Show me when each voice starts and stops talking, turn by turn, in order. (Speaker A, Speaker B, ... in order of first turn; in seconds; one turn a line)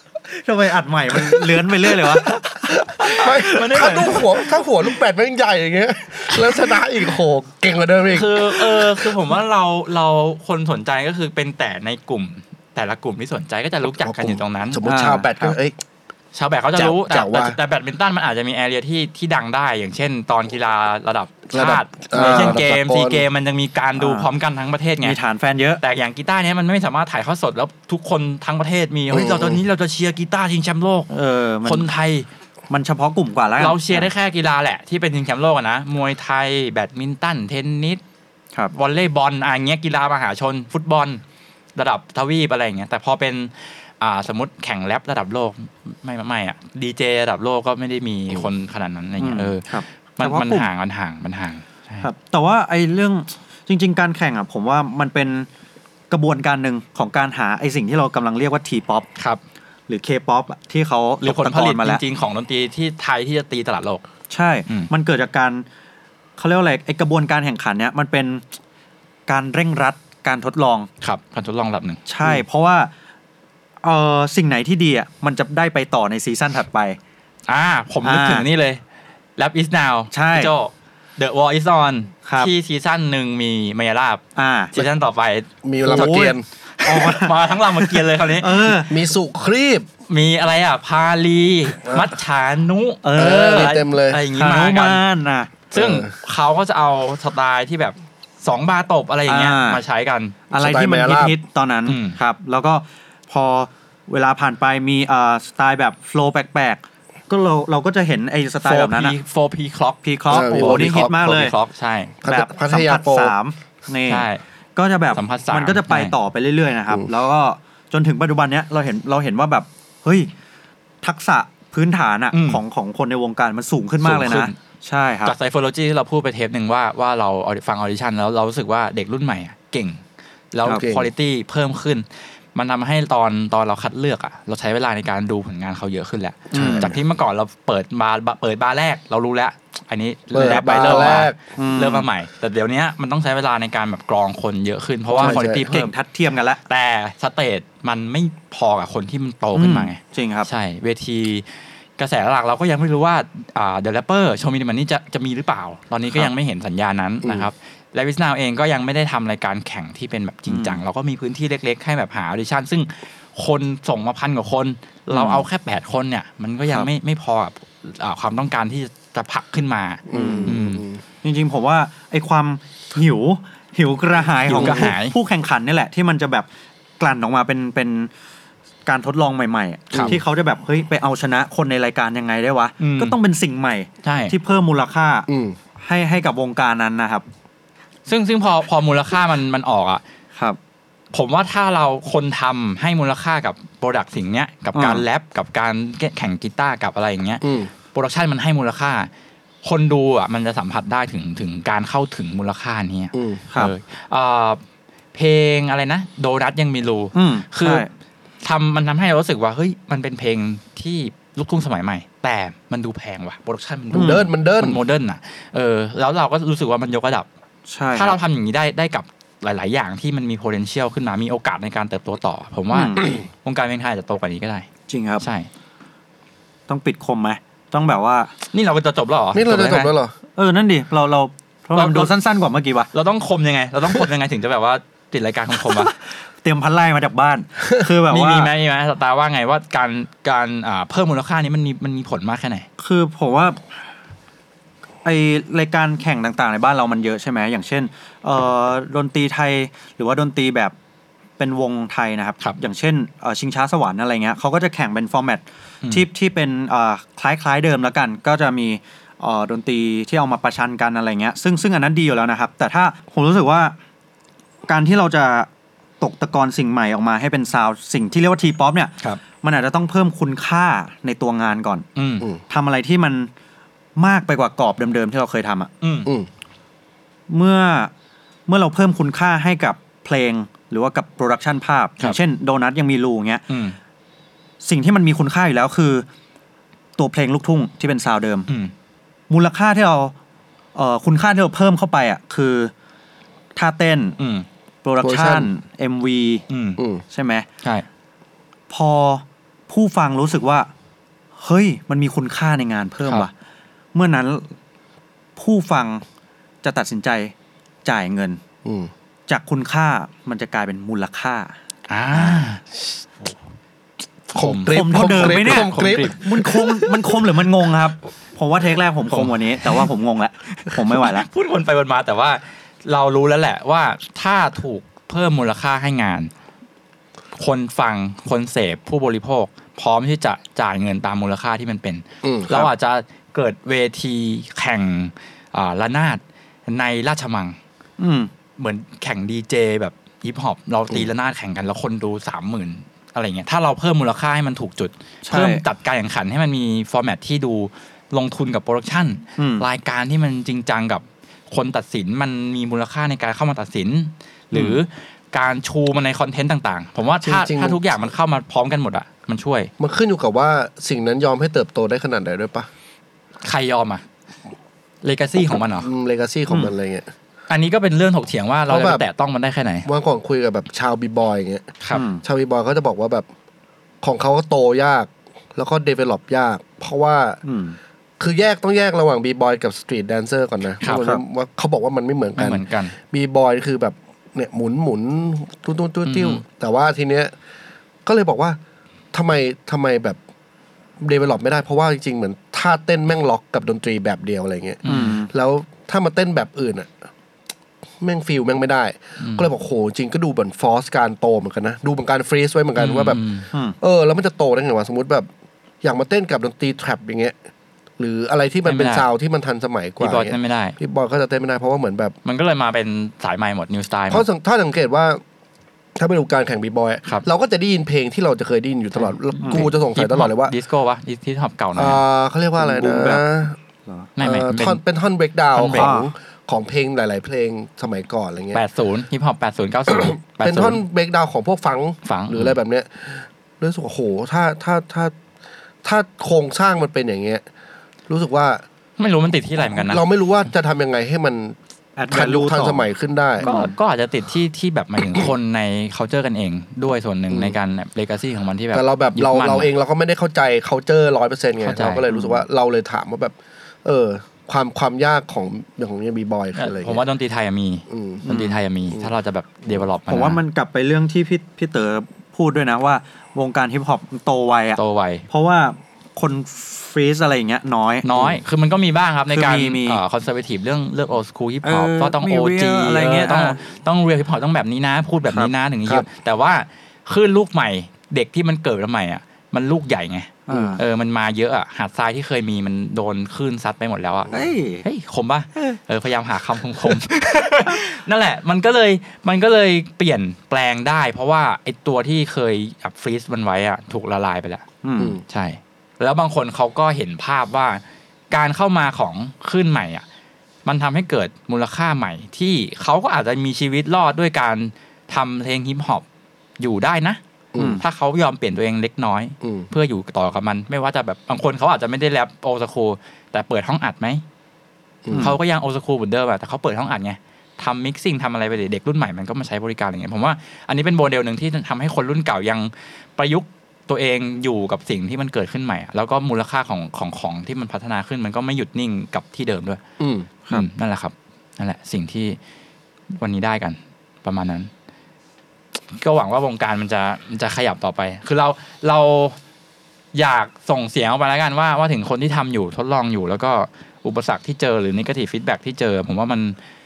Speaker A: 0.3-2.4
Speaker B: 1.1-9.1
Speaker C: 2.5-4.6
Speaker C: 8.1-14.8
Speaker B: 13.9-15.8
Speaker A: 14.8-15.3
Speaker C: 16.3-25.2
Speaker B: 16.8-17.6
Speaker B: 21.5-23.2
Speaker A: 22.1-22.6
Speaker A: 24.0-24.3
Speaker A: 25.0-25.8
Speaker C: 25.8-31.1
Speaker B: 29.1-29.6
Speaker A: 31.1-31.9
Speaker C: 31.6-32.3
Speaker A: 32.7-34.1
Speaker C: 33.6-38.0
Speaker C: 38.7-41.2
Speaker C: 41.8-52.1
Speaker A: 49.2-50.7
Speaker A: 52.0-55.5
Speaker A: 56.1-59.1
Speaker A: 59.9-62.0
Speaker C: 61.2-64.0
Speaker A: 64.3-65.7
Speaker A: 66.4-68.4
Speaker A: 69.3-70.9
Speaker C: 71.0-72.4
Speaker A: 72.1-72.9
Speaker A: 73.8-77.0
Speaker C: 77.5-78.8
Speaker A: 78.0-78.5
Speaker C: 79.4-84.2
Speaker A: 80.1-80.5
Speaker A: 82.2-82.5
Speaker A: 84.4-84.8
Speaker C: 84.7-86.1
Speaker B: 85.6-86.5
Speaker A: 85.9-89.0
Speaker C: 86.8-88.8
Speaker B: 88.9-89.9
Speaker C: 90.1-95.0
Speaker B: 91.8-92.1
Speaker A: 93.0-93.8
Speaker B: 93.2-94.2
Speaker A: 94.3-95.6
Speaker C: 95.7-100.4
Speaker B: 95.7-96.1
Speaker A: 99.3-99.8
Speaker A: 100.5-109.2
Speaker B: 100.5-101.4
Speaker C: 101.9-102.2
Speaker C: 108.7-112.2
Speaker A: 110.0-111.5
Speaker B: 110.3-111.2
Speaker B: 112.2-113.4
Speaker A: 112.2-120.3
Speaker C: 114.1-114.4
Speaker C: 115.2-116.2
Speaker A: 121.0-125.3
Speaker C: 122.3-122.6
Speaker C: 124.0-124.5
Speaker C: 125.3-145.9
Speaker B: 130.8-131.1
Speaker A: 136.5-136.9
Speaker B: 136.5-137.0
Speaker B: 140.3-141.4
Speaker A: 140.8-142.1
Speaker A: 145.1-146.6
Speaker B: 145.2-145.6
Speaker C: 146.7-151.5
Speaker A: 149.6-150.5
Speaker C: 152.0-170.8
Speaker B: 157.2-157.5
Speaker A: 160.5-160.8
Speaker A: 165.1-165.4
Speaker B: 170.1-171.0
Speaker A: 170.1-170.6
Speaker A: 171.2-176.5
Speaker C: 174.5-175.2
Speaker B: 174.6-174.9
Speaker A: 177.0-178.1
Speaker A: 178.9-185.3
Speaker B: 179.9-180.2
Speaker C: 179.9-180.2
Speaker C: 182.8-183.2
Speaker C: 184.0-184.3
Speaker B: 185.3-185.6
Speaker A: 185.8-187.2
Speaker C: 188.1-190.0
Speaker C: 191.1-199.1
Speaker A: 194.8-195.1
Speaker B: 197.4-197.7
Speaker C: 199.6-204.6
Speaker B: 203.1-203.4
Speaker C: 205.1-207.9
Speaker A: 207.1-207.9
Speaker C: 208.4-217.3
Speaker A: 213.9-214.2
Speaker B: 213.9-214.8
Speaker A: 217.7-218.2
Speaker C: 217.9-224.7
Speaker A: 222.7-223.0
Speaker A: 224.9-225.2
Speaker C: 225.2-225.5
Speaker A: 226.7-228.3
Speaker C: 228.5-229.9
Speaker B: 229.3-230.1
Speaker A: 230.4-232.9
Speaker C: 231.7-232.1
Speaker C: 232.9-235.9
Speaker A: 236.4-238.5
Speaker C: 238.1-242.7
Speaker A: 242.8-243.6
Speaker A: 245.1-250.7
Speaker A: 251.4-263.8
Speaker A: 264.7-265.5
Speaker A: 266.0-271.9
Speaker C: 272.0-272.3
Speaker A: 272.5-273.3
Speaker A: 274.0-275.7
Speaker C: 275.8-276.1
Speaker A: 277.3-277.9
Speaker A: 278.5-283.4
Speaker C: 283.5-283.8
Speaker A: 284.6-286.1
Speaker A: 287.0-288.5
Speaker A: 289.3-290.1
Speaker A: 290.8-292.7
Speaker A: 293.6-294.2
Speaker C: 294.2-294.5
Speaker A: 294.8-296.4
Speaker B: 295.0-295.5
Speaker C: 296.5-296.8
Speaker A: 297.1-297.5
Speaker A: 298.7-300.7
Speaker A: 301.4-303.3
Speaker A: 303.9-304.5
Speaker A: 305.4-306.0
Speaker A: 306.6-307.3
Speaker A: 307.9-308.4
Speaker B: 308.6-308.9
Speaker A: 309.3-311.5
Speaker C: 311.9-312.6
Speaker C: 314.3-316.3
Speaker B: 314.4-317.2
Speaker A: 314.7-321.3
Speaker C: 319.1-319.8
Speaker C: 320.6-326.3
Speaker C: 327.4-337.6
Speaker B: 332.2-332.7
Speaker A: 338.0-338.3
Speaker C: 338.6-359.7
Speaker A: 345.2-345.6
Speaker A: 349.4-349.7
Speaker A: 354.5-354.8
Speaker B: 357.2-357.8
Speaker B: 359.8-362.7
Speaker C: 363.4-364.0
Speaker C: 365.0-365.9
Speaker B: 365.8-367.1
Speaker C: 367.5-369.9
Speaker B: 368.7-369.0
Speaker B: 369.9-373.3
Speaker A: 371.9-372.2
Speaker B: 374.0-377.4
Speaker A: 377.4-377.8
Speaker B: 378.2-387.3
Speaker C: 380.8-381.1
Speaker C: 382.4-382.9
Speaker C: 386.1-386.4
Speaker B: 388.1-388.6
Speaker B: 389.1-390.2
Speaker B: 391.0-397.1
Speaker C: 394.8-395.2
Speaker A: 394.9-395.3
Speaker B: 398.0-403.2
Speaker C: 399.2-399.5
Speaker C: 402.8-403.5
Speaker B: 403.8-405.3
Speaker B: 405.8-407.4
Speaker B: 408.0-412.1
Speaker C: 408.7-409.1
Speaker C: 410.0-410.8
Speaker C: 412.2-414.2
Speaker B: 414.1-415.2
Speaker B: 416.0-420.5
Speaker C: 419.0-422.0
Speaker B: 421.8-423.6
Speaker A: 422.6-423.2
Speaker C: 424.2-424.8
Speaker B: 424.2-428.6
Speaker C: 425.6-425.9
Speaker A: 425.6-426.1
Speaker C: 428.5-430.8
Speaker B: 429.9-435.1
Speaker C: 432.1-432.6
Speaker B: 435.8-437.4
Speaker B: 438.1-438.6
Speaker C: 439.0-440.1
Speaker B: 439.6-441.6
Speaker A: 442.0-442.9
Speaker B: 442.1-443.5
Speaker A: 443.4-443.8
Speaker C: 443.4-449.7
Speaker B: 447.3-447.6
Speaker B: 448.7-457.0
Speaker C: 451.6-452.0
Speaker A: 452.1-452.4
Speaker C: 456.6-460.4
Speaker B: 457.9-458.2
Speaker A: 458.3-458.6
Speaker A: 460.1-468.1
Speaker C: 464.8-465.3
Speaker C: 468.0-494.7
Speaker A: 469.3-470.0
Speaker A: 471.6-473.6
Speaker A: 480.5-480.8
Speaker B: 480.5-480.8
Speaker A: 484.3-484.9
Speaker A: 494.8-495.2
Speaker C: 495.3-500.0
Speaker C: 500.6-506.1
Speaker C: 506.6-507.2
Speaker B: 507.5-507.8
Speaker A: 507.6-507.8
Speaker C: 507.8-514.2
Speaker B: 509.4-509.7
Speaker B: 515.0-515.3
Speaker C: 515.2-529.8
Speaker B: 530.0-530.3
Speaker C: 530.5-532.4
Speaker C: 533.2-534.7
Speaker C: 535.9-539.4
Speaker C: 540.1-546.6